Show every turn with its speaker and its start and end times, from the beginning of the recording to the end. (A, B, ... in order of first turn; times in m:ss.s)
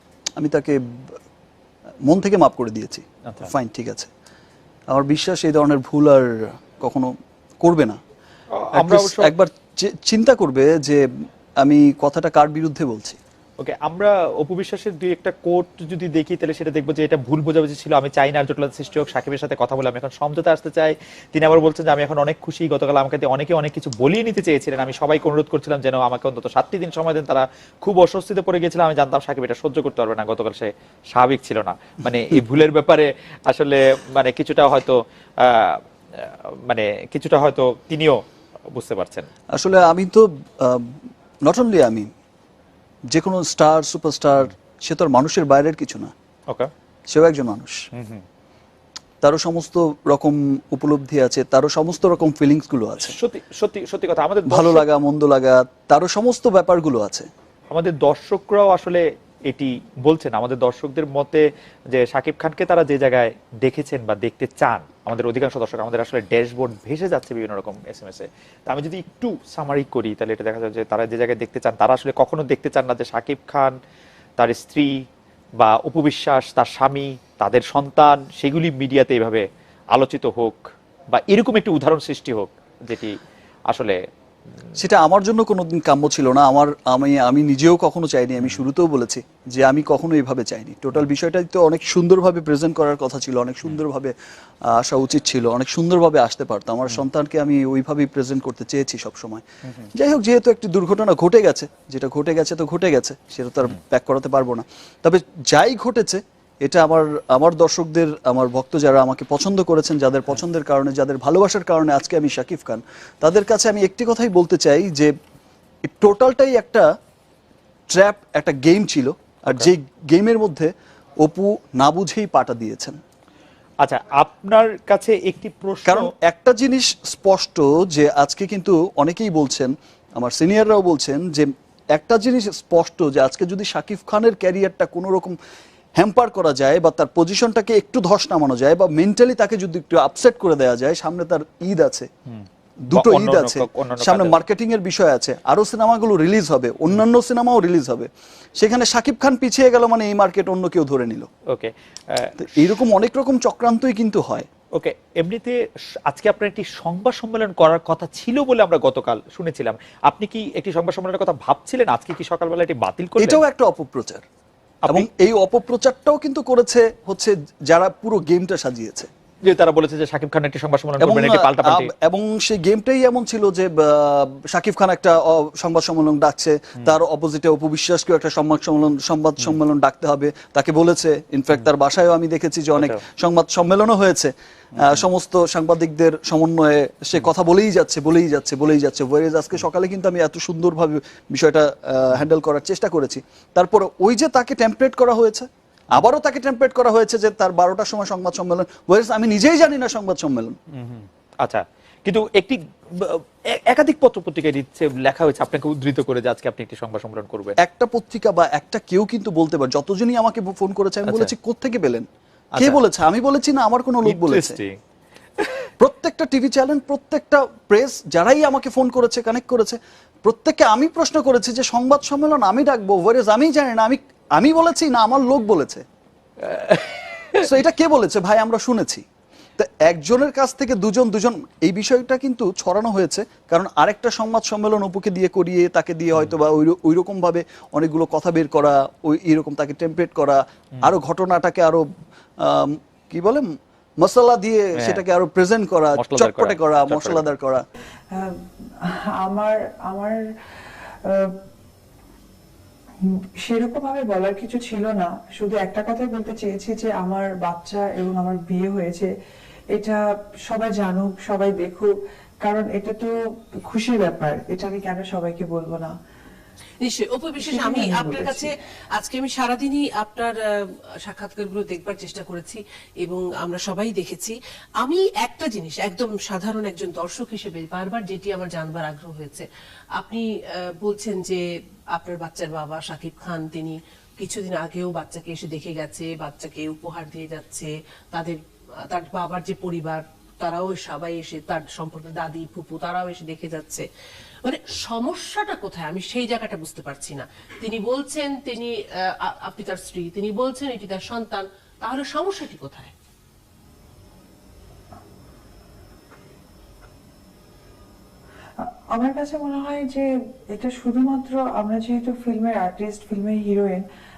0:00.4-0:01.2 A
0:02.1-0:04.1 A
0:04.9-0:06.3 A
0:06.8-0:08.0 A
0:08.5-0:09.3 B
0:08.8-0:11.0 A
0:11.6-0:13.2 A
0:13.6-0:39.3 B
0:39.5-0:40.9 A
0:41.4-0:42.1 A
0:43.1-0:46.1 A
0:47.1-0:47.8 A
0:47.9-0:48.2 B
0:49.2-0:53.1 A
0:53.0-0:54.8 B
0:54.5-0:57.3 A
0:57.7-1:13.7 B
1:14.4-1:15.0 B
1:15.6-1:23.2 B
1:23.7-1:24.0 B
1:24.8-1:34.1 A
1:34.7-1:55.1 A
1:55.8-1:56.8 A
1:57.9-2:00.7 A
2:01.2-2:03.0 A
2:03.8-2:06.1 B
2:05.8-2:15.4 A
2:16.0-2:22.1 A
2:22.3-2:24.4 B
2:22.9-2:31.3 A
2:31.5-2:32.8 B
2:32.4-2:34.5 A
2:34.7-2:43.4 B
2:43.2-2:44.2 A
2:44.8-2:45.1 B
2:44.9-2:49.1 A
2:49.4-2:51.9 B
2:51.0-3:20.6 A
3:04.7-3:05.0 B
3:20.7-3:27.6 B
3:27.6-3:32.1 A
3:31.1-3:31.3 B
3:32.5-3:32.8 B
3:32.6-3:34.6 A
3:34.0-3:34.8 B
3:35.4-3:35.7 B
3:35.8-3:45.8 A
3:46.4-3:47.4 B
3:47.3-3:49.0 A
3:49.6-4:01.8 A
4:02.4-4:03.5 A
4:04.0-4:07.6 A
4:04.8-4:05.0 B
4:06.0-4:07.2 B
4:08.1-4:10.2 C
4:11.0-4:11.3 C
4:13.0-4:19.1 C
4:19.7-4:23.2 C
4:23.7-4:25.9 C
4:26.8-4:39.4 D
4:27.4-4:28.5 C
4:40.0-4:53.8 D
4:54.4-5:02.9 D
5:08.6-5:13.8 C